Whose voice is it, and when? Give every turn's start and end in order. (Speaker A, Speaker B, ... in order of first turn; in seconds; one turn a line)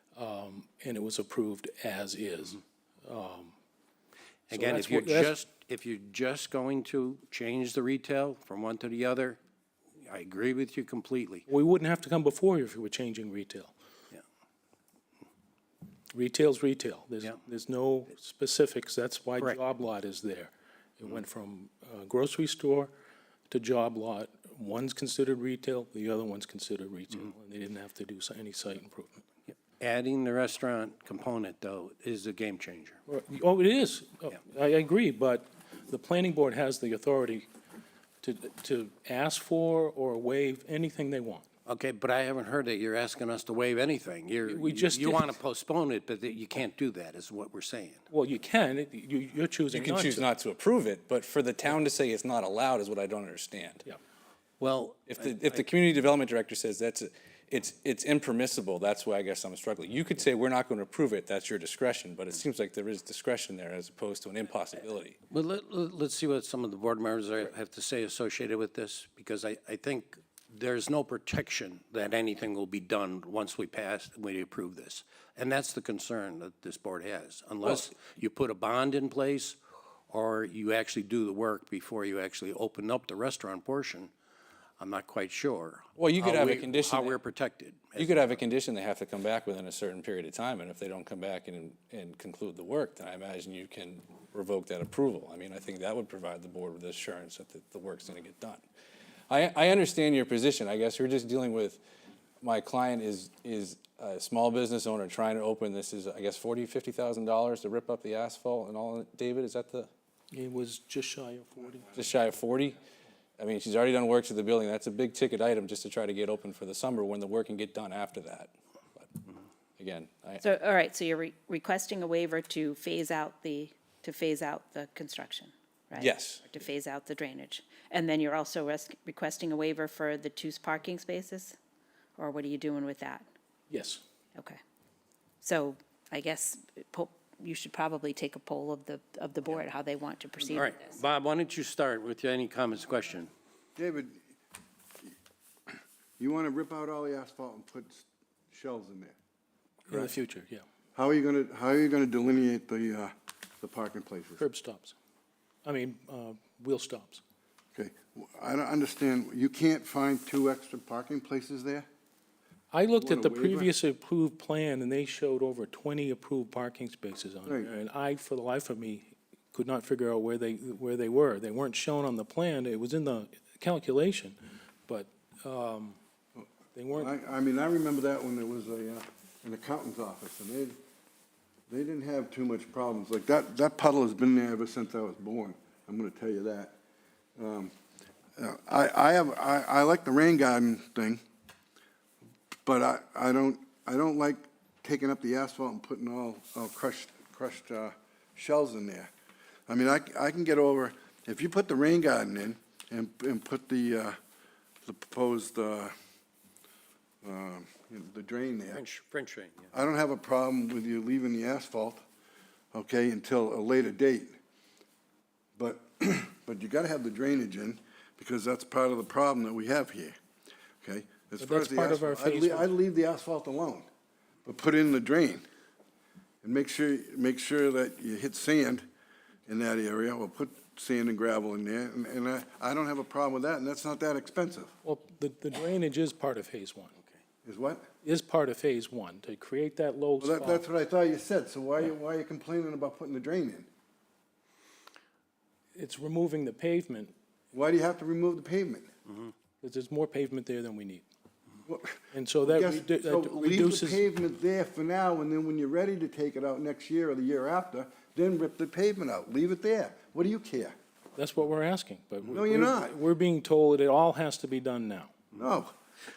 Speaker A: 0.1-3.5
Speaker A: 4.5-5.4
Speaker B: 4.5-9.4
Speaker B: 10.0-11.5
Speaker A: 11.5-13.7
Speaker A: 16.1-22.9
Speaker A: 23.5-29.2
Speaker B: 29.8-33.0
Speaker A: 33.1-37.5
Speaker A: 38.2-41.5
Speaker B: 41.7-48.0
Speaker A: 44.5-45.4
Speaker A: 48.1-50.3
Speaker C: 49.7-53.9
Speaker B: 54.6-55.6
Speaker C: 55.1-65.2
Speaker B: 65.3-84.1
Speaker B: 84.8-88.4
Speaker C: 86.0-87.2
Speaker C: 88.0-98.6
Speaker C: 99.3-101.8
Speaker C: 102.4-109.9
Speaker A: 110.3-111.9
Speaker C: 112.0-112.8
Speaker C: 113.4-120.6
Speaker D: 120.6-131.6
Speaker C: 125.9-126.5
Speaker D: 132.2-133.3
Speaker A: 133.7-134.0
Speaker D: 134.3-134.6
Speaker D: 135.4-140.9
Speaker B: 140.5-143.3
Speaker E: 143.8-144.2
Speaker E: 145.7-149.2
Speaker A: 149.9-150.6
Speaker E: 150.9-154.4
Speaker A: 154.4-154.9
Speaker A: 155.7-157.2
Speaker E: 157.8-161.9
Speaker A: 162.7-176.0
Speaker E: 163.0-163.7
Speaker A: 176.8-177.1
Speaker E: 176.9-180.8
Speaker E: 181.7-186.8
Speaker E: 187.4-187.7
Speaker E: 188.4-191.2
Speaker E: 192.7-199.1
Speaker E: 199.7-204.2
Speaker E: 204.8-205.9
Speaker E: 207.2-208.8
Speaker B: 208.7-209.7
Speaker E: 209.7-212.0
Speaker E: 212.7-214.4
Speaker E: 215.6-220.1
Speaker E: 220.8-223.9
Speaker A: 221.4-222.7
Speaker E: 224.4-225.4
Speaker E: 226.4-228.8
Speaker E: 229.5-234.7
Speaker A: 234.8-236.9
Speaker E: 237.4-237.8
Speaker A: 238.0-240.6
Speaker E: 240.2-243.7
Speaker A: 245.8-247.1
Speaker E: 247.5-248.9
Speaker A: 249.6-251.1
Speaker E: 251.7-260.7
Speaker A: 252.1-254.0
Speaker A: 261.2-265.1
Speaker E: 262.3-263.0
Speaker E: 265.4-265.7